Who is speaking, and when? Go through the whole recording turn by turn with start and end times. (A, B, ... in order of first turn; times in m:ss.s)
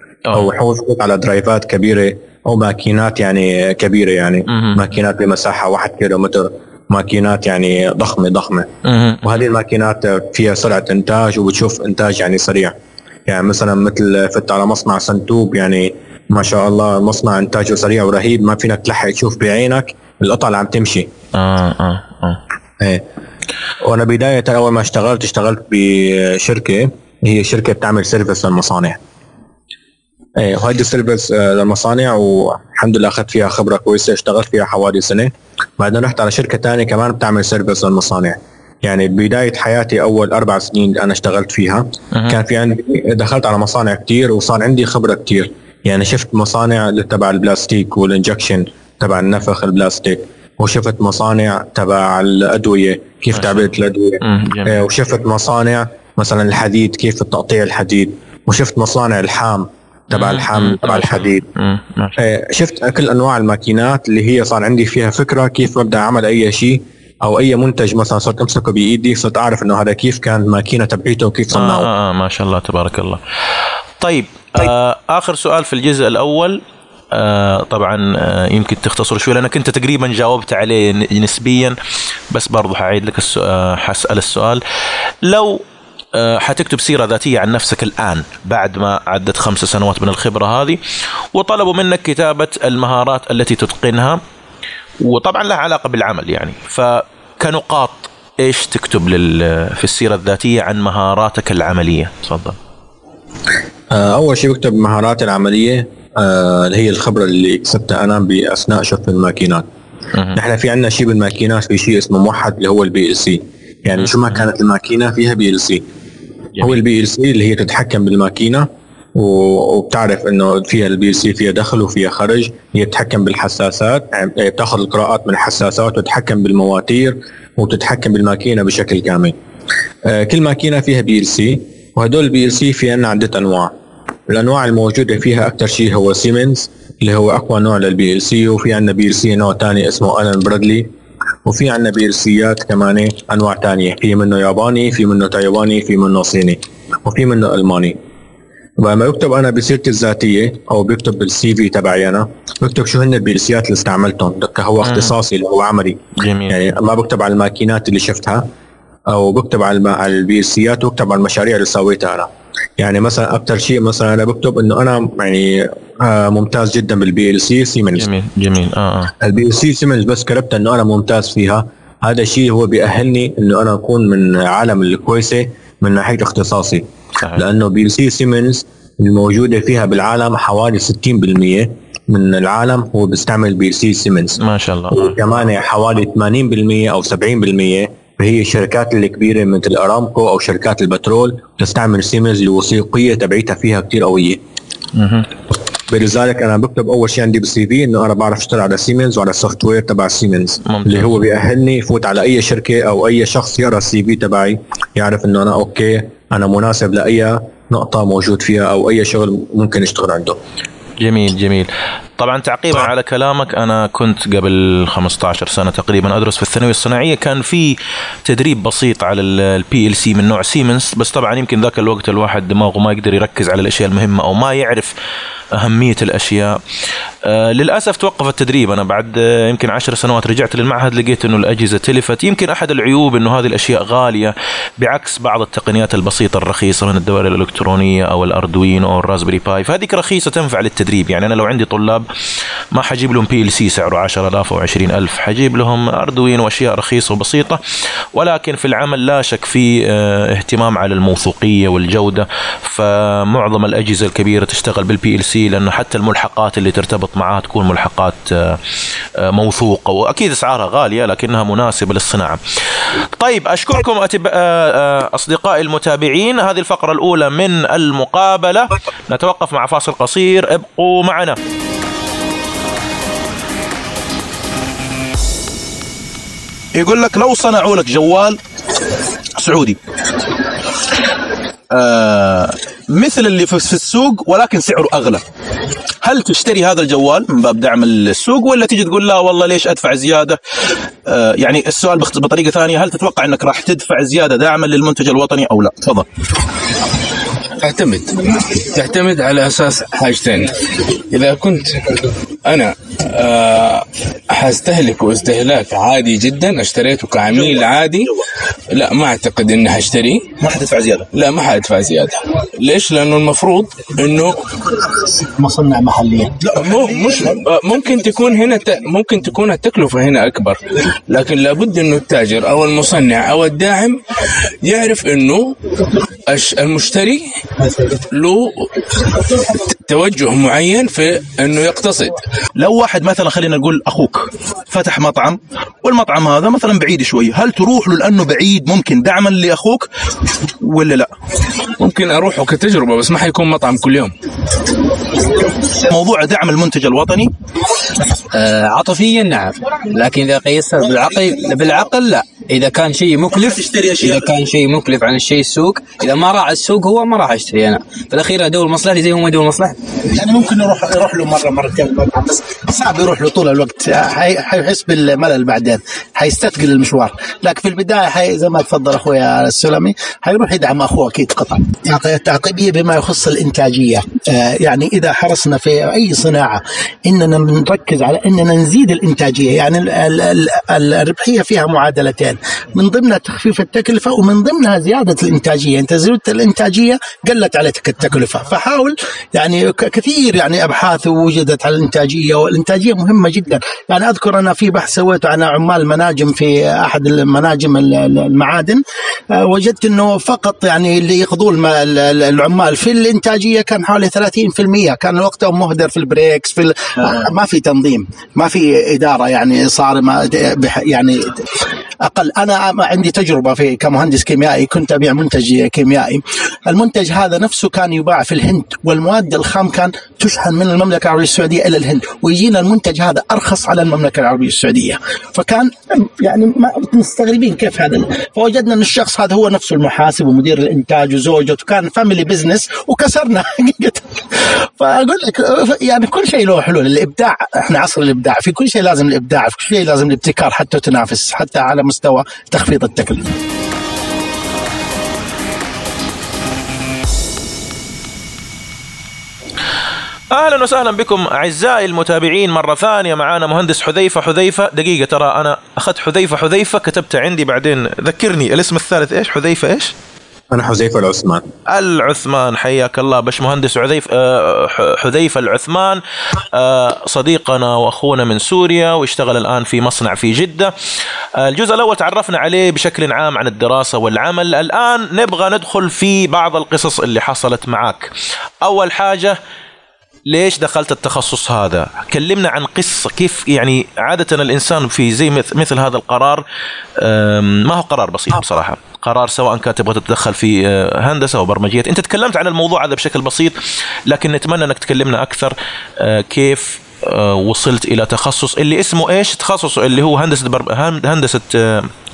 0:00.3-0:08.7 A
0:04.5-0:04.8 B
0:08.8-0:09.4 B
0:09.2-0:12.7 A
0:13.3-0:21.1 A
0:21.3-0:22.4 B
0:23.8-0:29.0 A
0:30.4-1:01.4 A
0:53.3-0:54.8 B
1:00.1-1:02.2 B
1:02.2-1:11.9 A
1:11.5-1:13.2 B
1:14.0-1:16.6 B
1:17.1-1:21.7 B
1:22.3-1:24.6 B
1:25.2-1:25.6 B
1:26.1-1:30.8 B
1:31.3-1:34.2 B
1:35.0-1:42.6 B
1:43.9-1:49.6 A
1:50.3-1:55.8 A
1:54.0-1:54.4 B
1:56.6-2:09.3 A
2:10.0-2:13.7 A
2:14.3-2:20.9 A
2:21.4-2:28.0 A
2:28.8-2:38.4 A
2:34.8-2:35.1 B
2:36.2-2:36.6 B
2:39.1-2:48.1 A
2:48.0-2:49.1 B
2:49.2-2:56.8 A
2:57.4-3:04.4 A
3:04.4-3:05.2 B
3:04.9-3:14.4 A
3:14.9-3:15.3 B
3:15.9-3:30.4 A
3:20.6-3:21.3 B
3:31.0-3:37.7 B
3:38.2-3:44.9 B
3:45.5-3:46.6 B
3:47.2-4:02.0 B
4:02.7-4:07.6 B
4:08.2-4:18.6 B
4:19.2-4:22.4 B
4:23.2-4:31.4 B
4:36.8-4:38.4 C
4:39.4-4:39.8 C
4:41.7-4:45.2 C
4:46.0-4:50.4 C
4:51.0-4:56.0 C
4:57.6-5:00.5 D
5:01.1-5:08.1 D
5:08.7-5:10.3 D
5:10.4-5:11.1 C
5:11.1-5:14.6 D
5:15.2-5:16.4 E
5:16.5-5:24.0 D
5:24.6-5:25.6 D
5:26.2-5:27.4 D
5:28.1-5:28.7 D
5:29.3-5:32.2 D
5:32.6-5:39.9 C
5:40.6-5:41.1 C
5:41.8-5:44.1 D
5:45.8-5:47.3 C
5:48.3-5:59.8 F
5:53.6-5:54.1 C
6:00.1-6:38.8 E
6:39.3-6:51.4 E
6:52.0-7:23.3 E
7:30.3-7:39.9 B
7:40.5-7:41.4 A
7:41.7-7:46.0 B
7:46.5-7:50.7 B
7:51.4-7:58.1 B
7:58.6-7:59.4 B
8:00.3-8:06.4 B
8:07.0-8:13.5 B
8:14.1-8:21.9 B